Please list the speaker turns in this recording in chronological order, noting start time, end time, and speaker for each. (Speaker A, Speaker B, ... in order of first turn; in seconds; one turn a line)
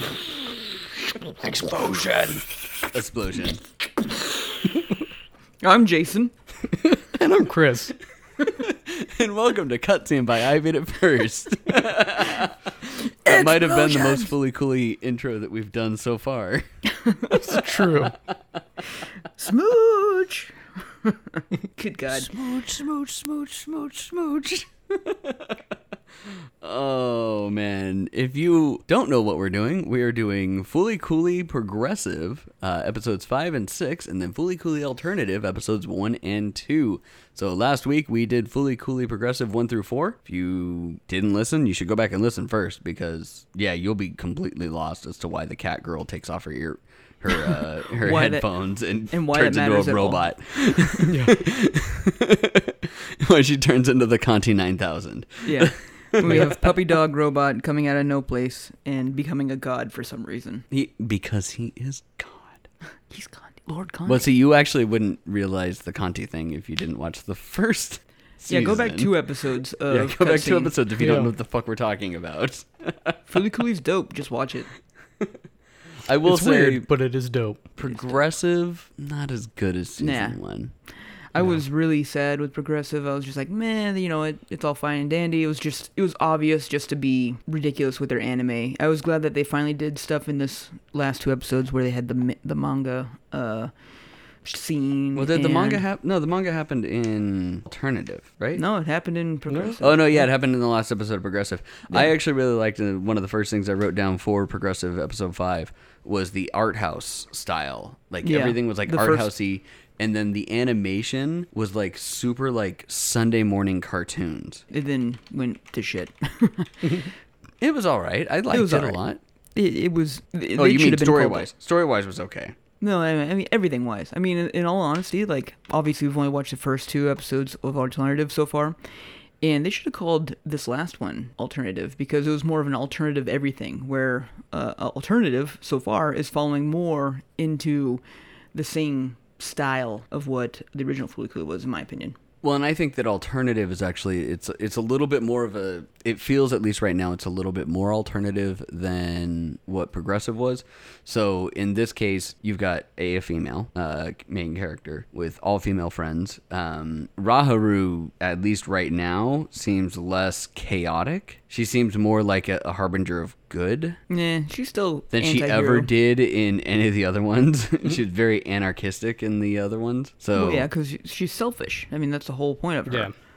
Speaker A: 1.5-3.6
Speaker B: 5.6-6.3
Speaker C: 6.8-8.0
Speaker A: 8.4-16.7
Speaker B: 13.2-14.3
Speaker B: 17.0-17.4
Speaker A: 17.2-18.0
Speaker C: 17.4-18.2
Speaker B: 19.4-22.3
Speaker A: 22.1-25.6
Speaker A: 26.3-56.8
Speaker B: 48.0-48.5
Speaker B: 49.1-50.2
Speaker C: 51.1-51.4
Speaker B: 55.4-60.6
Speaker C: 56.2-56.5
Speaker A: 60.7-62.7
Speaker B: 63.1-64.2
Speaker A: 64.1-69.2
Speaker B: 68.5-70.8
Speaker A: 69.9-73.4
Speaker C: 71.0-71.3
Speaker B: 73.3-74.7
Speaker A: 76.0-76.9
Speaker C: 76.3-77.7
Speaker A: 77.8-80.7
Speaker B: 77.9-78.2
Speaker B: 80.0-80.4
Speaker B: 81.3-93.7
Speaker B: 94.4-95.8
Speaker A: 95.2-98.6
Speaker B: 98.6-100.3
Speaker A: 99.8-114.6
Speaker B: 108.2-109.3
Speaker B: 114.7-117.1
Speaker A: 117.6-119.2
Speaker B: 118.5-119.0
Speaker B: 119.5-121.5
Speaker A: 120.6-122.5
Speaker B: 122.8-128.8
Speaker B: 129.4-138.0
Speaker B: 138.5-142.2
Speaker A: 142.4-164.0
Speaker B: 164.1-165.9
Speaker A: 165.1-170.7
Speaker B: 170.3-173.1